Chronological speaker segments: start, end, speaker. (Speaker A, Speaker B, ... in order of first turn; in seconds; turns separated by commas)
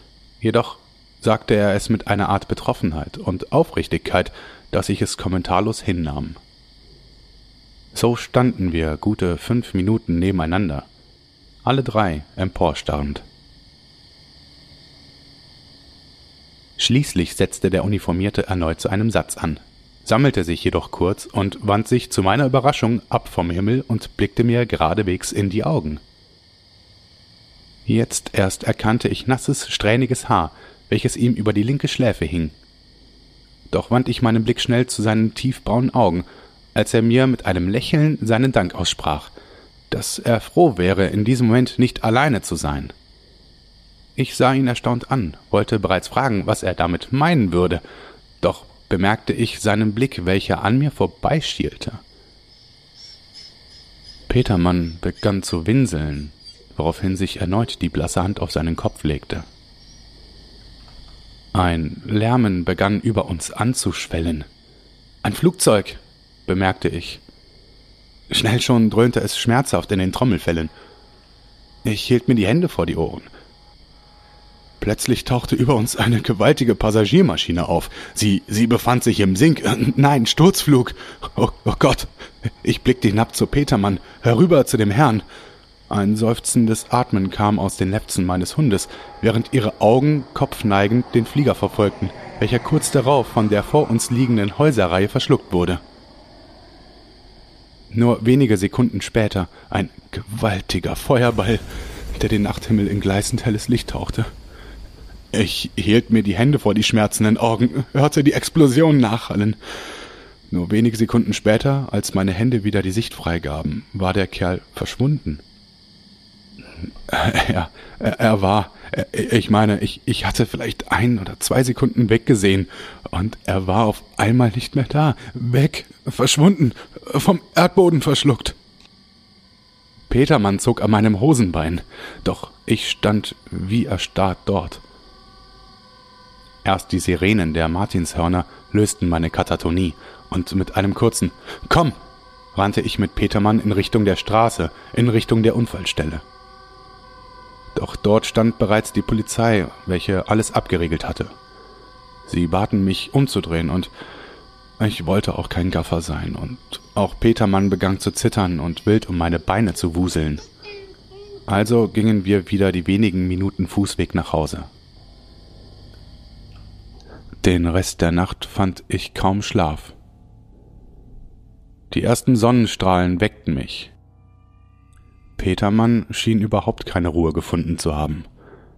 Speaker A: 0.4-6.4, Speaker A: 7.9-10.9, Speaker A: 11.6-13.3, Speaker A: 16.8-26.0, Speaker A: 27.9-32.5, Speaker A: 33.7-39.3, Speaker A: 39.9-42.9, Speaker A: 44.1-47.8, Speaker A: 48.4-52.0, Speaker A: 54.3-59.5, Speaker A: 61.5-64.5, Speaker A: 65.2-67.2, Speaker A: 68.3-70.7, Speaker A: 71.8-73.3, Speaker A: 74.8-82.1, Speaker A: 82.6-85.2, Speaker A: 85.9-95.8, Speaker A: 97.9-104.3, Speaker A: 105.3-109.6, Speaker A: 110.5-115.4, Speaker A: 117.0-128.6, Speaker A: 130.1-134.8, Speaker A: 136.6-142.0, Speaker A: 142.5-146.2, Speaker A: 147.7-151.3, Speaker A: 152.2-153.9, Speaker A: 154.8-160.5, Speaker A: 161.5-164.7, Speaker A: 167.4-169.9, Speaker A: 171.9-173.9, Speaker A: 175.4-178.3